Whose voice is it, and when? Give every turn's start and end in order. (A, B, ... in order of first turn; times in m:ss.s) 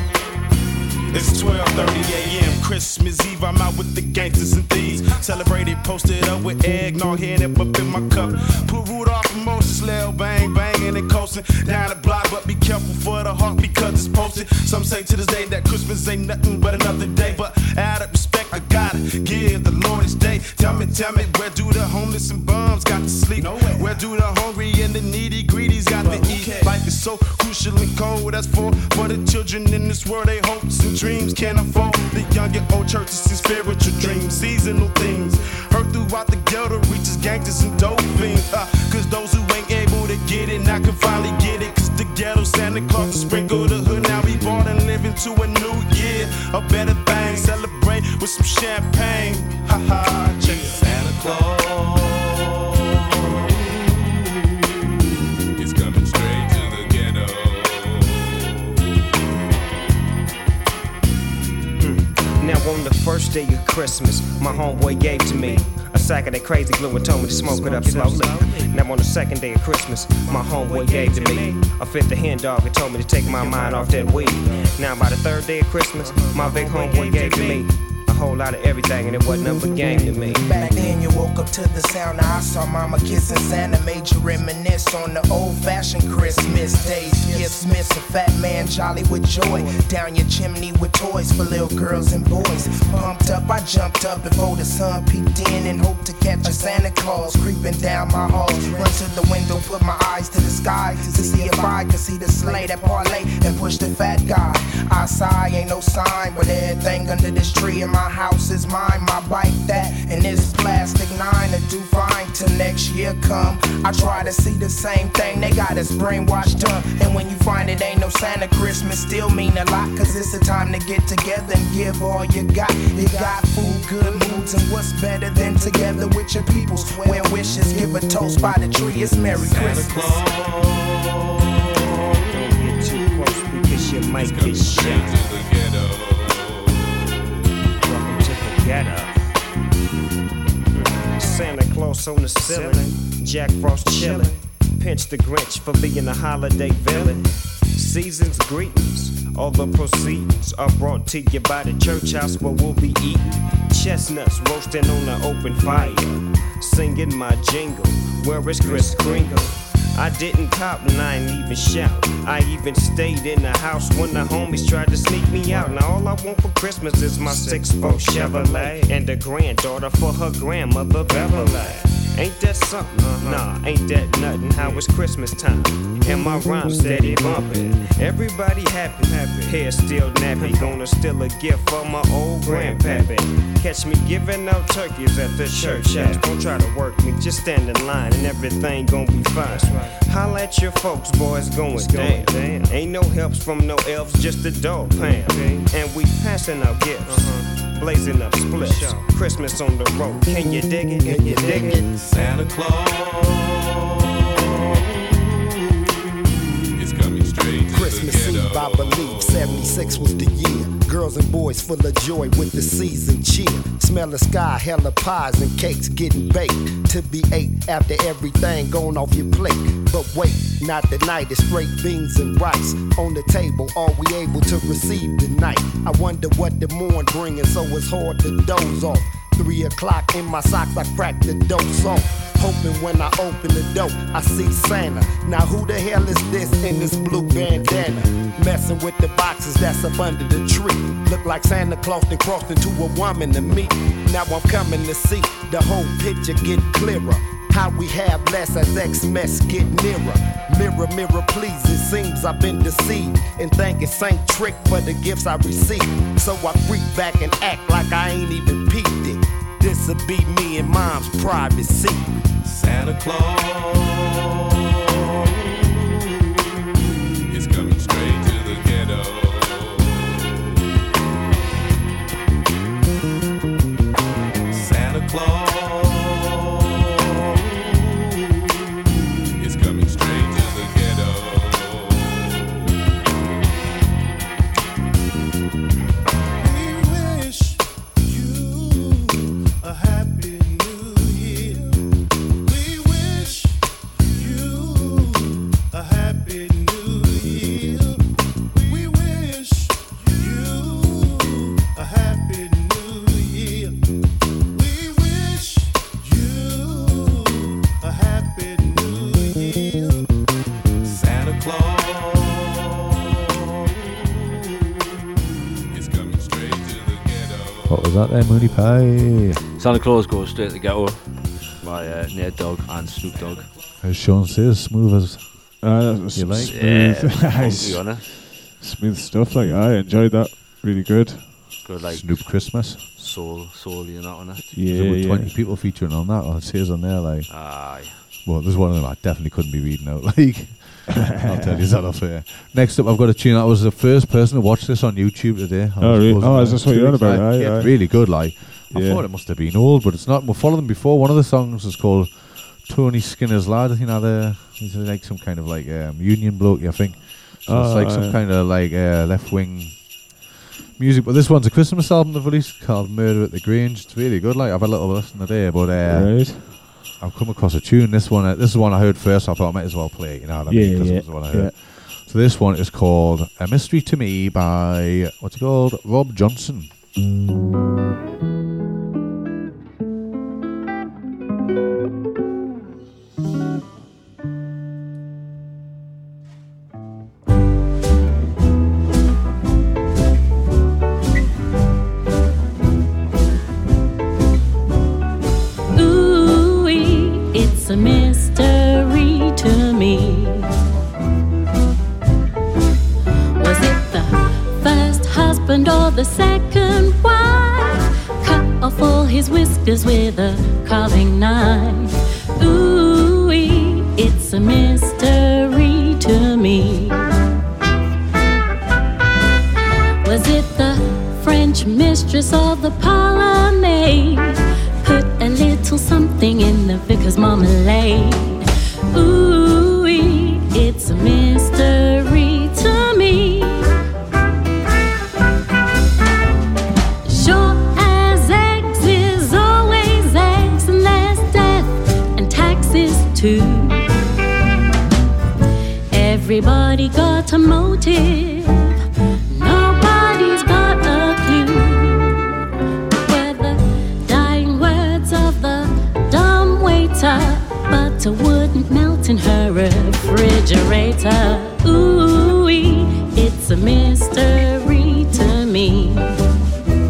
0:01.1-0:52.6 A
0:55.6-0:58.7 B
1:01.8-1:20.5 C
1:20.0-2:10.2 D
2:09.5-2:10.3 B
2:10.4-2:10.7 A
2:12.3-2:15.5 C
2:14.1-2:17.3 B
2:17.8-2:19.2 C
2:21.1-3:22.0 C
3:22.1-3:22.5 B
3:26.8-3:30.2 B
3:27.7-4:22.1 E
4:22.5-4:23.8 B
4:27.3-4:30.5 B
4:34.5-4:36.4 B
4:39.4-4:42.7 B
5:10.9-5:12.3 B
5:15.7-5:18.0 B
5:17.7-5:19.4 F
5:19.6-5:23.5 G
5:23.8-5:25.5 F
5:25.6-5:31.6 H
5:26.1-5:26.6 F
5:26.5-5:28.1 G
5:31.6-5:34.5 G
5:31.8-5:32.8 F
5:34.5-5:35.3 H
5:34.6-5:37.4 F
5:37.3-5:38.0 G
5:38.0-6:16.7 F
5:45.8-5:49.1 H
5:57.4-5:58.2 H
6:05.9-6:06.8 H
6:10.5-6:11.5 H
6:35.7-6:40.4 I
6:43.4-6:57.0 I
7:00.0-7:13.6 I
7:17.1-7:23.8 I
7:25.9-7:28.7 I
7:29.3-7:32.3 I
7:33.0-7:46.1 I